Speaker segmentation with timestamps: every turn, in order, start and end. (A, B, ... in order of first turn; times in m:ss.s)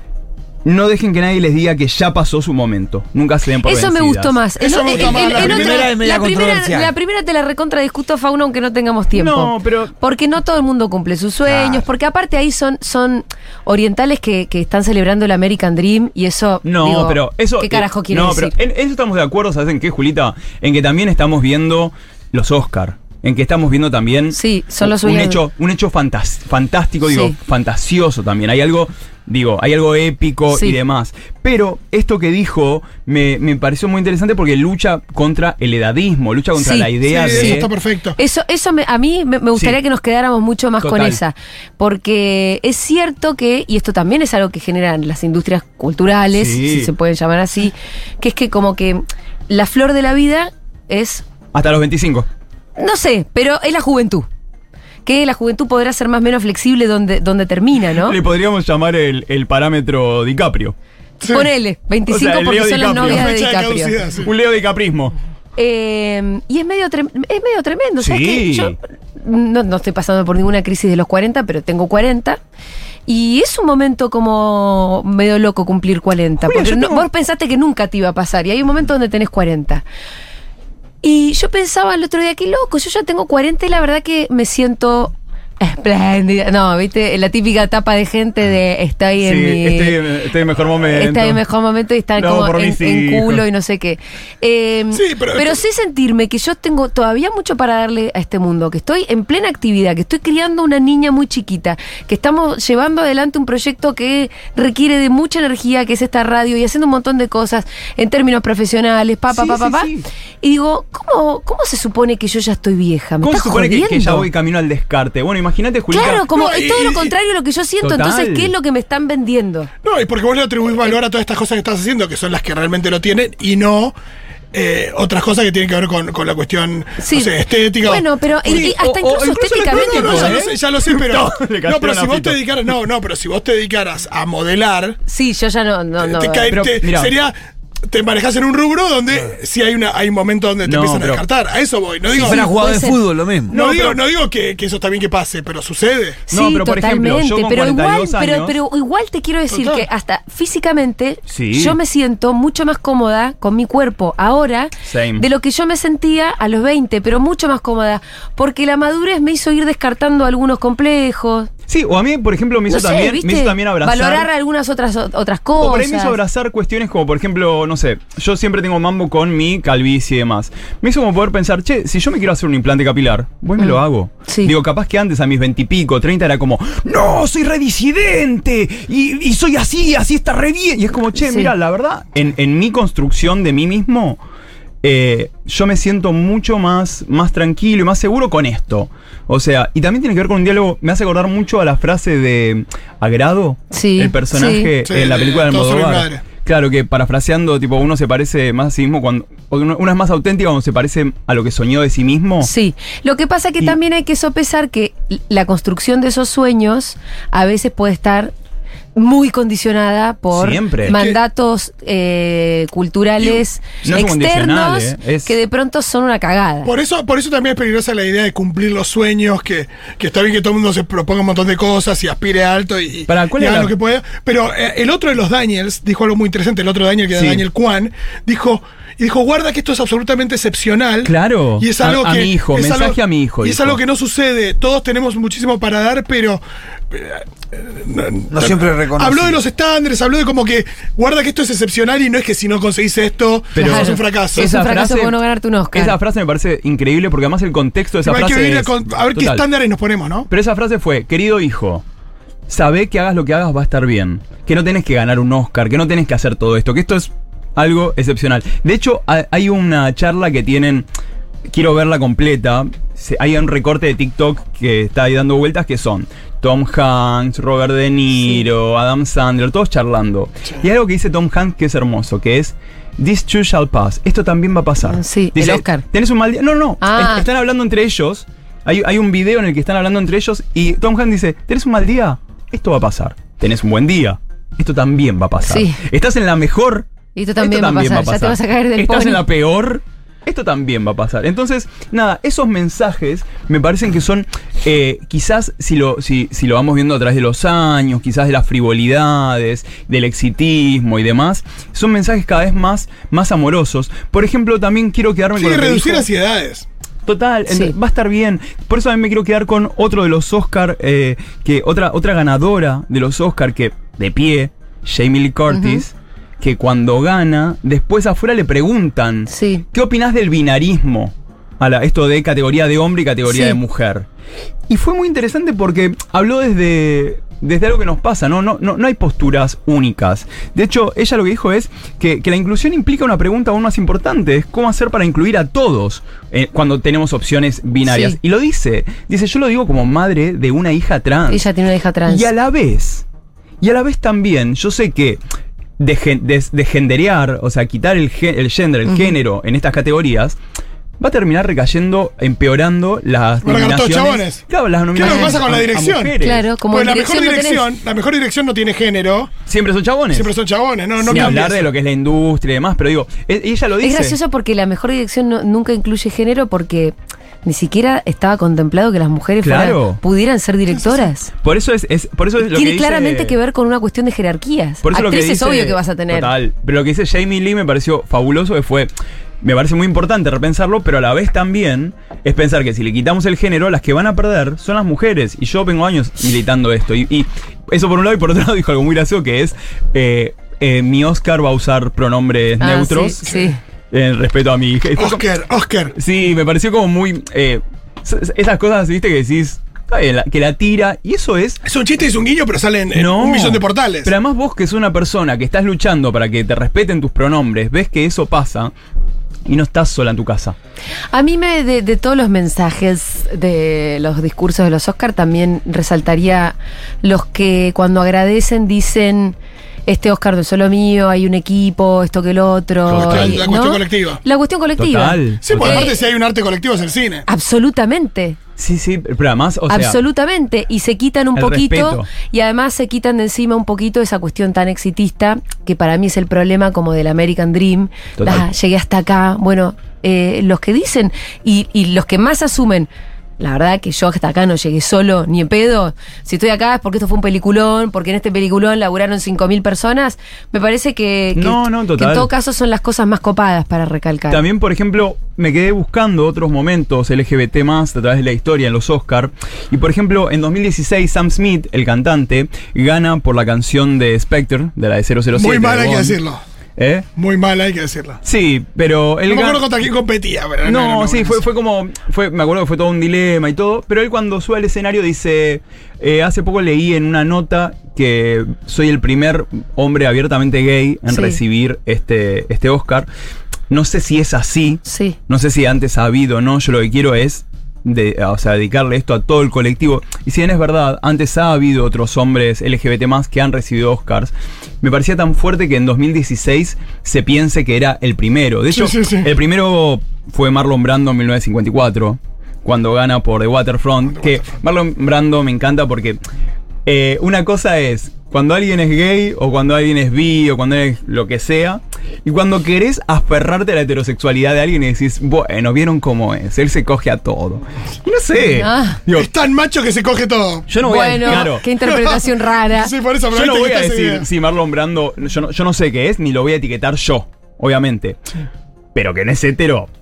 0:00.6-0:04.4 A
0:03.6-0:18.6 B
0:04.6-0:05.9 C
0:05.0-0:06.9 D
0:09.1-0:09.9 A
0:16.6-0:37.7 A
0:24.3-0:25.4 B
0:27.1-0:27.4 B
0:30.5-0:30.8 B
0:36.6-0:37.7 B
0:37.1-0:38.2 C
0:38.2-0:51.2 B
0:40.8-0:41.2 A
0:46.3-0:46.9 A
0:51.5-0:52.3 A
0:52.8-0:54.3 B
0:55.0-0:58.2 B
0:58.0-1:00.8 A
1:01.2-1:04.0 B
1:01.2-1:01.5 C
1:02.1-1:03.3 A
1:02.9-1:04.3 C
1:04.2-1:05.2 A
1:05.6-1:12.4 B
1:08.0-1:08.8 A
1:13.1-1:19.8 B
1:16.4-1:17.1 A
1:21.0-1:30.0 B
1:29.2-1:31.4 A
1:30.9-1:49.9 B
1:32.2-1:33.4 A
1:34.9-1:35.6 C
1:49.3-1:50.1 A
1:50.4-1:54.3 B
1:53.2-1:56.3 A
1:55.9-1:59.7 B
1:56.3-1:57.1 C
1:57.8-1:58.5 A
1:59.8-2:04.0 C
2:04.5-2:08.7 C
2:07.0-2:10.4 B
2:08.4-2:12.4 A
2:09.6-2:15.0 C
2:15.1-2:16.6 B
2:16.0-2:17.4 C
2:16.5-2:17.1 A
2:17.9-2:22.5 C
2:20.6-2:21.2 A
2:22.1-2:23.0 B
2:22.2-2:23.5 D
2:23.5-2:24.0 A
2:23.5-2:26.2 C
2:26.3-2:41.5 B
2:26.3-2:28.6 A
2:29.5-2:29.9 C
2:31.3-2:31.8 A
2:34.9-2:35.2 A
2:41.7-2:44.3 A
2:42.7-2:46.2 B
2:45.6-3:04.2 A
2:53.6-2:54.5 B
3:01.2-3:01.5 B
3:04.8-3:22.5 A
3:13.7-3:14.7 B
3:14.8-3:16.2 C
3:22.4-3:28.3 B
3:29.0-3:36.7 B
3:30.3-3:31.0 A
3:30.9-3:31.2 C
3:33.8-3:35.3 A
3:36.6-4:04.5 C
3:43.1-3:43.8 A
3:47.1-3:47.5 A
3:51.0-3:53.8 A
3:58.3-3:59.4 D
4:03.6-4:05.2 A
4:03.6-4:06.0 B
4:05.7-4:09.5 A
4:08.0-4:10.3 C
4:10.3-4:11.8 A
4:12.5-4:20.9 A
4:21.5-5:06.1 A
4:34.8-4:35.8 B
4:36.8-4:37.2 B
4:45.5-4:45.8 B
4:47.2-4:49.2 B
5:05.4-5:06.7 C
5:07.1-5:24.1 A
5:15.5-5:15.8 B
5:19.3-5:19.6 B
5:23.3-5:23.6 B
5:24.7-5:41.4 A
5:37.8-5:38.2 B
5:41.3-5:42.3 B
5:42.1-5:43.1 A
5:43.6-5:45.2 A
5:45.8-5:50.4 A
5:48.9-5:49.1 B
5:51.0-5:56.5 A
5:53.4-5:54.4 C
5:54.9-5:56.2 C
5:55.0-5:55.4 B
5:56.2-5:57.6 B
5:56.7-5:59.3 C
5:59.5-6:00.3 A
6:00.1-6:01.7 C
6:01.0-6:04.2 A
6:03.8-6:11.3 B
6:09.4-6:10.0 A
6:10.7-6:11.1 C
6:11.4-6:13.4 A
6:12.4-6:16.3 B
6:14.8-6:35.2 A
6:32.6-6:33.6 B
6:35.0-6:36.0 C
6:36.0-6:41.6 A
6:41.6-6:44.1 C
6:42.9-6:48.7 A
6:49.5-6:50.6 A
6:51.1-6:59.4 B
6:59.9-7:06.0 B
7:02.9-7:03.5 A
7:02.9-7:04.2 C
7:04.8-7:05.9 A
7:05.4-7:07.2 C
7:07.3-7:08.4 B
7:08.6-7:10.0 A
7:09.7-7:34.4 B
7:11.4-7:12.1 A
7:18.2-7:18.5 A
7:31.4-7:32.3 A
7:34.3-7:46.2 A
7:45.3-7:46.4 C
7:46.8-7:47.1 A
7:47.2-7:48.2 C
7:48.2-7:49.7 A
7:49.3-7:51.4 C
7:50.6-8:03.1 A
8:01.1-8:01.4 B
8:03.7-8:26.2 A
8:04.9-8:05.2 B
8:18.7-8:19.3 C
8:26.8-8:39.3 A
8:38.6-8:39.0 B
8:39.1-8:40.7 C
8:40.7-8:41.7 A
8:40.8-8:42.9 B
8:41.3-8:44.3 C
8:43.3-8:48.2 A
8:48.9-8:49.9 A